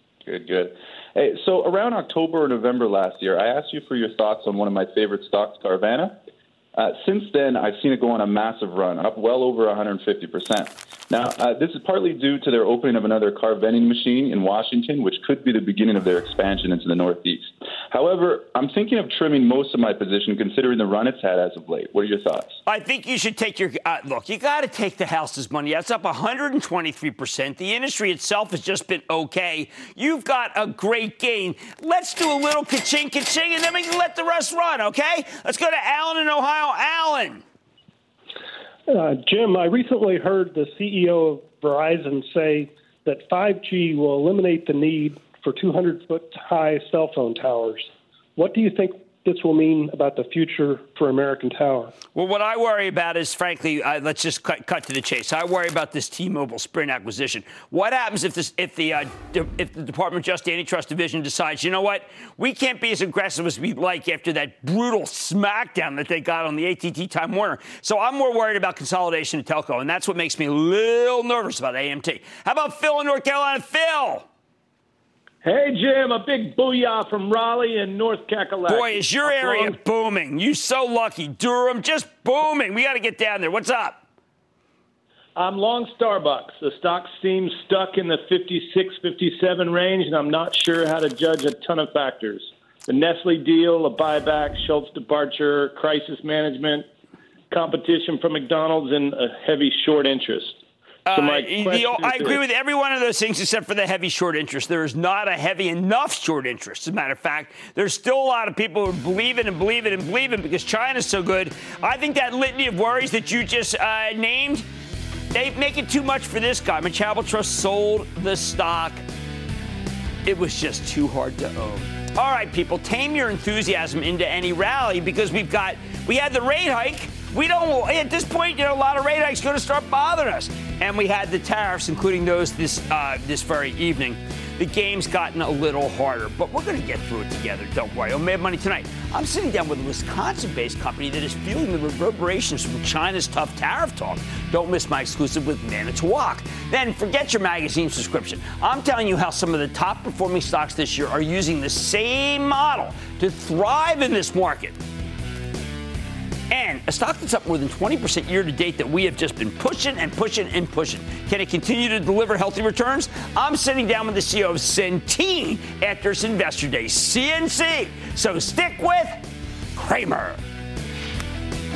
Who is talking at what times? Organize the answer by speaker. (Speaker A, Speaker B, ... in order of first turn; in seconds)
Speaker A: 0.2-6.1, 6.7-22.6
Speaker B: 22.6-37.4, 52.1-74.3, 78.7-84.0, 101.0-114.6, 115.3-119.0, 120.2-154.8, 156.5-170.4
Speaker C: 38.9-51.9
Speaker D: 75.4-79.8, 85.3-96.8, 97.5-100.6, 101.1-102.4